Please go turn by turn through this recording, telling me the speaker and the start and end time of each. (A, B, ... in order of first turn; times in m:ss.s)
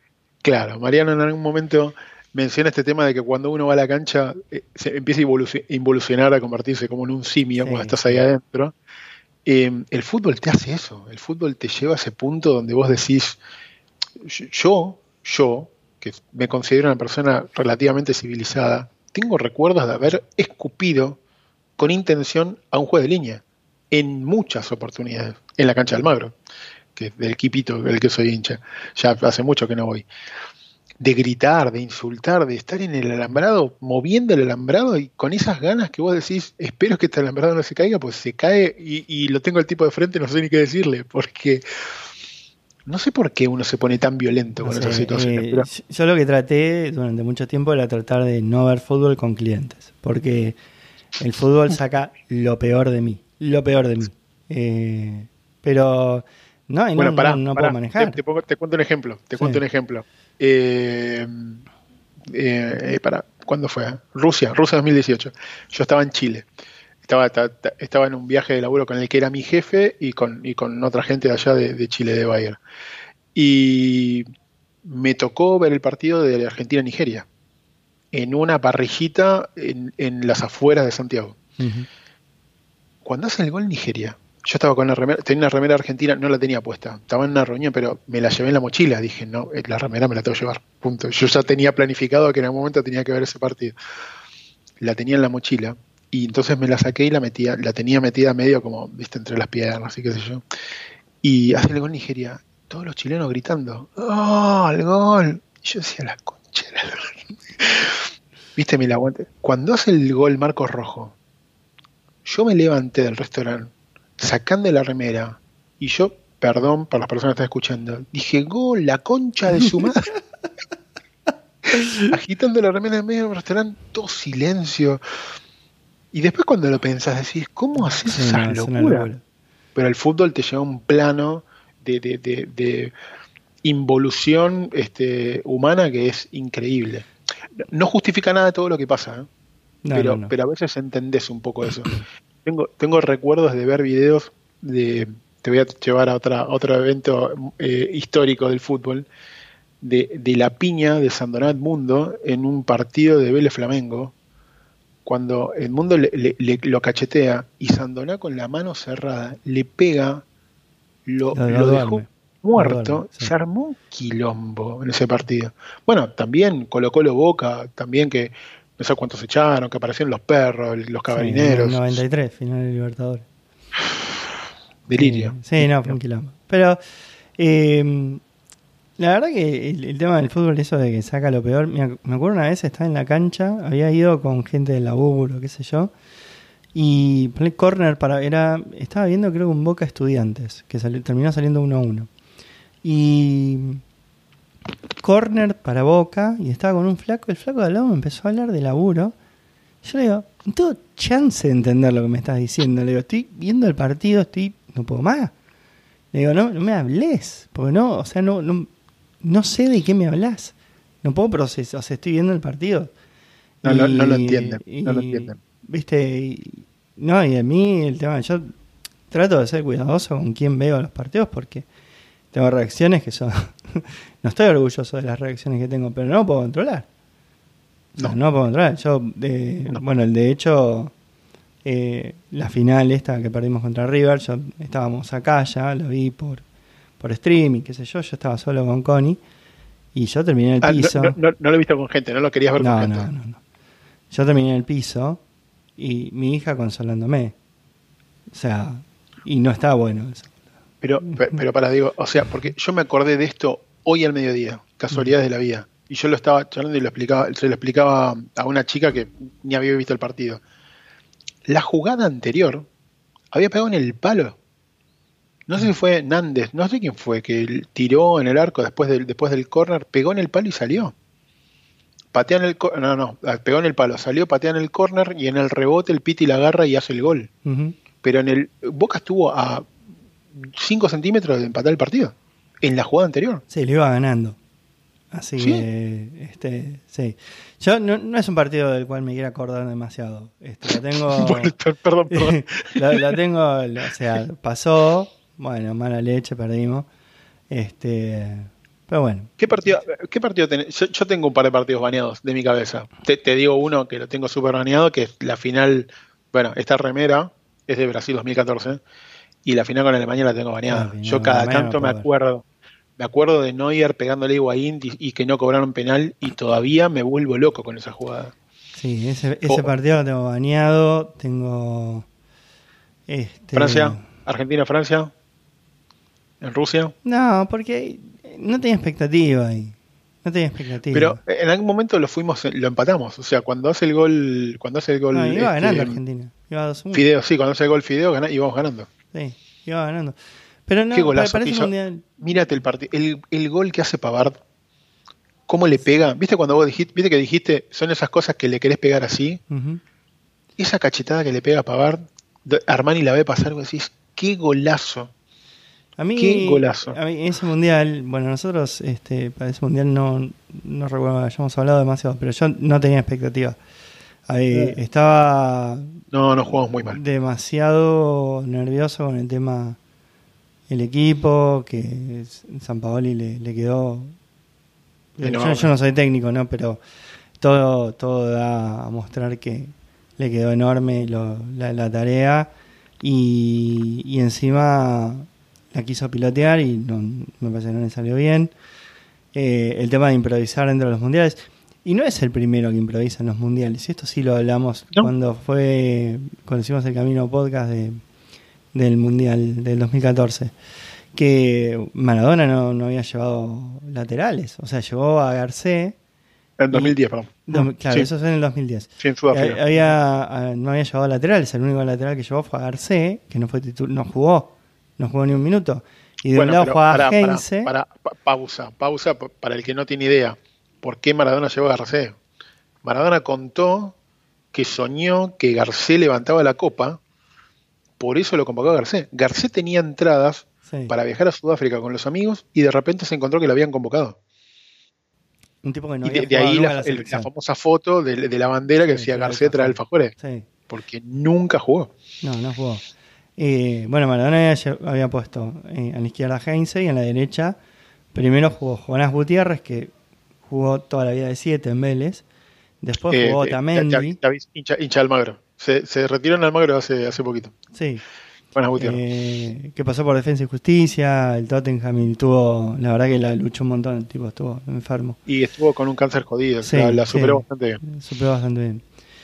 0:00.4-0:08.7 A
0:07.6-0:08.2 B
0:09.4-0:13.4 A
0:14.2-0:21.2 A
0:21.8-0:26.4 A
0:27.0-0:30.1 A
0:31.0-0:41.6 A
0:42.9-0:45.7 A
0:44.6-0:50.6 B
0:51.2-0:58.2 B
0:57.0-1:01.6 A
0:59.4-0:59.6 B
1:02.3-1:06.5 A
1:07.0-1:12.6 A
1:13.4-1:14.2 A
1:14.8-1:17.3 A
1:18.1-1:21.4 A
1:21.6-1:21.9 B
1:23.0-1:33.7 A
1:34.8-1:40.4 A
1:41.2-1:48.0 A
1:48.6-1:51.2 A
1:52.2-2:00.1 A
2:01.7-2:02.1 B
2:02.1-2:05.0 A
2:06.1-2:09.1 A
2:07.8-2:09.2 B
2:09.8-2:12.9 A
2:13.6-2:17.1 A
2:17.6-2:19.3 A
2:19.8-2:20.3 B
2:19.9-2:29.1 A
2:29.8-2:34.1 A
2:35.0-2:40.2 A
2:41.1-2:52.0 A
2:41.3-2:43.3 B
2:51.1-2:53.3 B
2:53.8-2:54.2 A
2:54.9-2:56.0 A
2:54.9-2:56.8 B
2:57.4-2:58.2 B
2:59.0-3:05.9 B
3:06.7-3:12.1 B
3:12.8-3:13.8 B
3:15.0-3:19.2 B
3:19.8-3:25.3 B
3:26.1-3:28.7 B
3:29.2-3:32.9 B
3:33.6-3:38.5 B
3:33.6-3:35.4 A
3:39.1-3:41.7 B
3:42.3-3:46.9 B
3:48.0-3:50.9 B
3:51.6-3:56.4 B
3:57.0-3:59.2 B
4:00.0-4:01.2 B
4:00.6-4:03.1 A
4:02.6-4:03.4 B
4:04.1-4:05.2 B
4:05.8-4:07.4 B
4:08.3-4:10.3 B
4:10.8-4:20.4 A
4:21.5-4:22.7 A
4:23.3-4:24.4 A
4:25.5-4:30.9 A
4:32.1-4:37.3 A
4:37.4-4:37.8 B
4:38.0-4:39.7 A
4:40.4-4:43.4 A
4:43.5-4:44.4 B
4:45.1-4:51.5 B
4:45.4-4:45.7 A
4:50.7-4:53.2 A
4:52.1-4:56.9 B
4:57.5-4:59.8 B
4:59.4-5:08.8 A
5:09.4-5:12.4 A
5:10.7-5:12.1 B
5:13.0-5:18.3 A
5:18.8-5:22.1 B
5:23.1-5:24.1 B
5:23.5-5:25.1 A
5:26.4-5:27.0 A
5:27.0-5:31.2 B
5:30.9-5:36.0 A
5:35.1-5:37.1 B
5:36.9-5:38.9 A
5:39.1-5:42.2 B
5:40.9-5:44.4 A
5:45.5-5:49.4 A
5:49.5-5:49.8 B
5:50.6-5:55.1 A
5:56.0-6:03.6 B
5:56.2-5:57.0 A
6:04.3-6:06.0 B
6:06.1-6:07.0 A
6:06.9-6:09.8 B
6:10.7-6:14.2 B
6:15.2-6:16.8 B
6:15.2-6:15.7 A
6:17.4-6:22.5 B
6:23.0-6:28.5 B
6:29.3-6:38.0 B
6:38.7-6:40.5 B
6:41.1-6:46.0 B
6:46.6-6:48.1 A
6:47.5-6:57.7 B
6:49.0-6:49.9 A
6:56.4-7:02.2 A
7:02.8-7:04.0 A
7:04.5-7:07.0 A
7:08.0-7:14.2 A
7:10.7-7:10.9 B
7:15.6-7:17.3 B
7:16.0-7:20.1 A
7:18.8-7:20.5 B
7:20.7-7:21.9 A
7:22.2-7:22.8 B
7:23.4-7:27.6 B
7:28.1-7:29.9 B
7:30.5-7:32.2 B
7:32.8-7:34.2 B
7:33.1-7:37.6 A
7:37.7-7:38.0 B
7:38.6-7:39.0 A
7:38.8-7:45.2 B
7:45.3-7:47.8 A
7:46.6-7:48.8 B